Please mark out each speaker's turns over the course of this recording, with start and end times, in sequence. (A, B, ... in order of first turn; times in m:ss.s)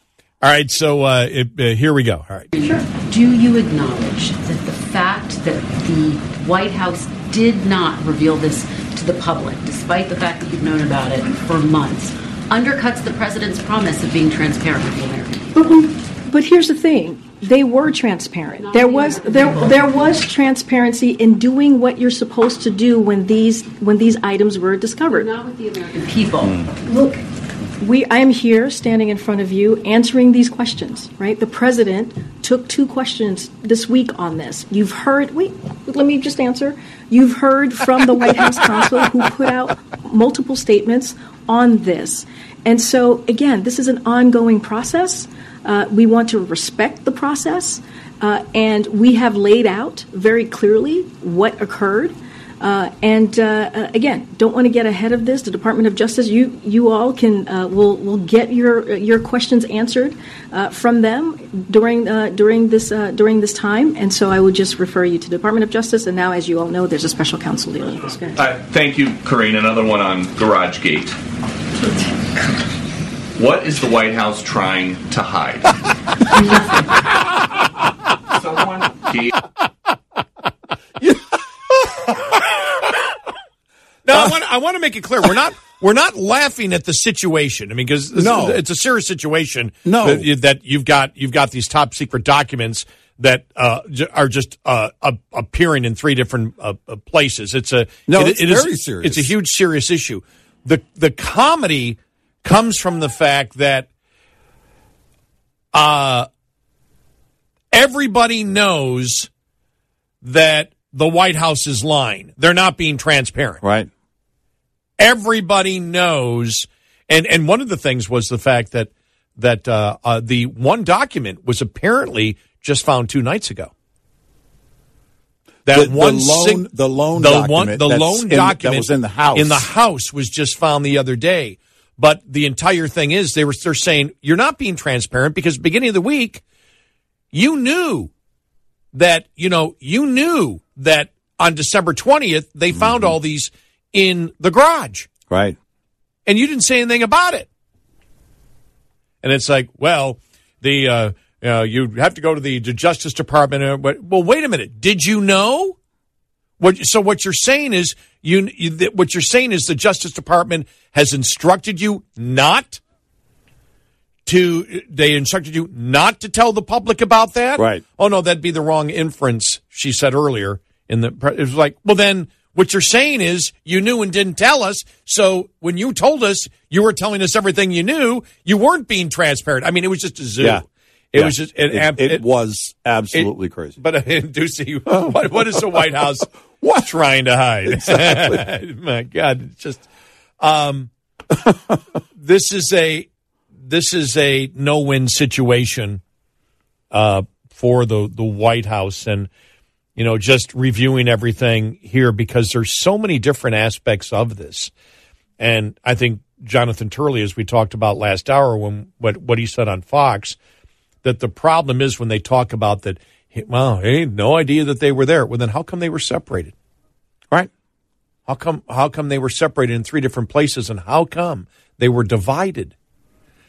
0:00.4-0:02.5 A
0:02.5-0:15.5 B
0:15.6-0:25.3 C
0:18.6-0:20.2 B
0:25.1-0:26.6 B
0:26.9-0:27.2 C
0:27.8-1:08.4 C
1:08.4-1:11.2 D
1:13.4-1:15.8 D
1:18.4-1:19.3 D
1:24.0-1:43.9 A
1:28.2-1:28.6 E
1:29.8-1:30.3 E
1:38.1-1:39.3 E
1:45.7-1:46.3 A
1:47.7-1:49.3 A
1:50.2-1:53.6 A
1:53.6-1:53.9 E
1:55.0-2:03.7 A
2:05.7-2:16.4 A
2:05.7-2:09.7 E
2:17.3-2:18.1 A
2:18.9-2:25.1 A
2:22.7-2:23.1 E
2:25.3-2:25.6 E
2:26.3-2:27.5 A
2:29.2-2:35.8 A
2:36.6-2:42.8 A
2:44.3-3:02.2 A
2:47.6-2:47.8 E
3:01.2-3:03.8 E
3:03.1-3:06.3 A
3:04.9-3:05.8 E
3:06.6-3:06.9 E
3:06.8-3:09.8 A
3:07.7-3:08.5 E
3:10.4-3:10.9 A
3:12.2-3:13.1 A
3:13.6-3:16.0 A
3:16.9-3:19.3 A
3:20.0-3:24.7 A
3:25.4-3:30.4 A
3:31.0-3:36.5 A
3:38.3-3:42.7 A